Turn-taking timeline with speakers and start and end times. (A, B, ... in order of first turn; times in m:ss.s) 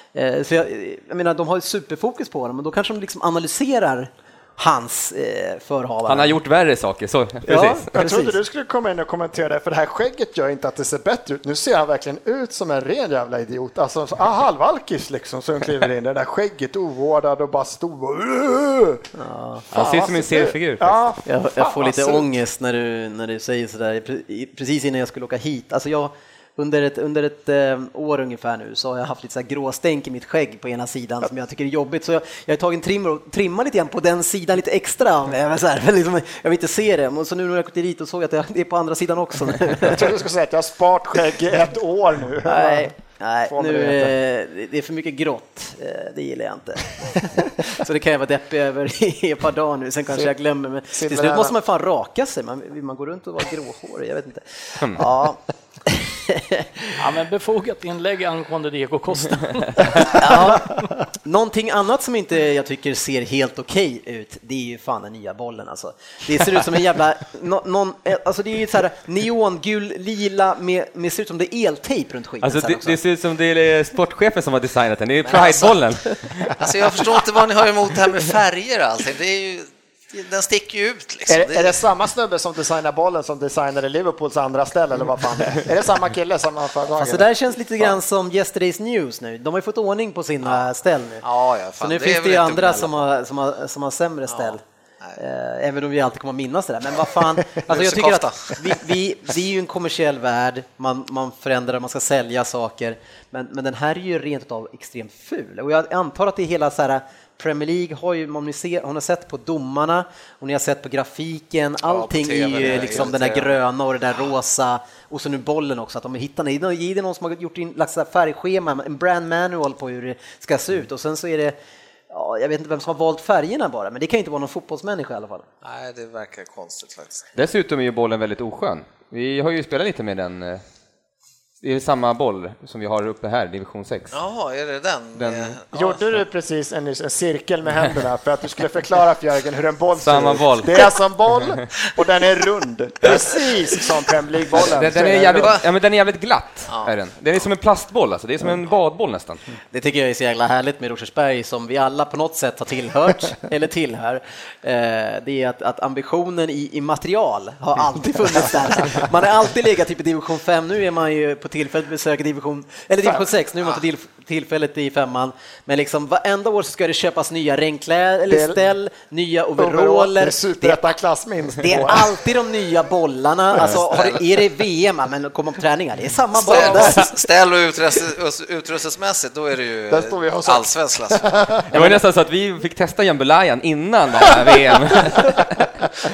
0:00.1-0:06.4 A
0:06.1-0:07.9 B
0:07.4-0:08.4 A
0:07.9-0:19.1 C
0:19.2-0:19.7 A
0:19.7-0:22.3 C
0:19.7-0:21.0 B
0:21.3-0:40.1 A
0:39.8-0:42.9 C
0:42.4-0:56.9 A
0:43.5-0:44.1 C
0:50.9-0:51.5 C
0:57.0-1:00.5 D
1:00.1-1:13.0 A
1:12.4-1:16.7 B
1:15.2-1:15.8 E
1:16.6-1:21.8 E
1:21.3-1:27.3 C
1:27.0-1:31.2 A
1:31.2-1:33.0 E
1:31.8-1:34.6 A
1:34.3-1:35.2 E
1:35.2-2:01.6 A
1:37.6-1:38.8 E
1:51.9-1:53.6 E
2:02.1-2:05.5 A
2:05.6-2:07.3 E
2:07.4-2:10.6 B
2:11.6-2:14.1 B
2:14.1-2:16.0 E
2:15.2-2:15.6 B
2:15.7-2:25.5 C
2:20.0-2:20.9 B
2:21.4-2:21.7 B
2:24.5-2:29.4 B
2:26.7-2:27.4 E
2:29.7-2:50.8 A
2:48.3-2:48.6 C
2:49.6-2:52.2 C
2:51.6-2:57.1 A
2:53.8-2:54.2 E
2:56.4-3:01.5 E
2:56.5-2:57.1 C
2:59.9-3:02.0 C
3:01.7-3:05.7 B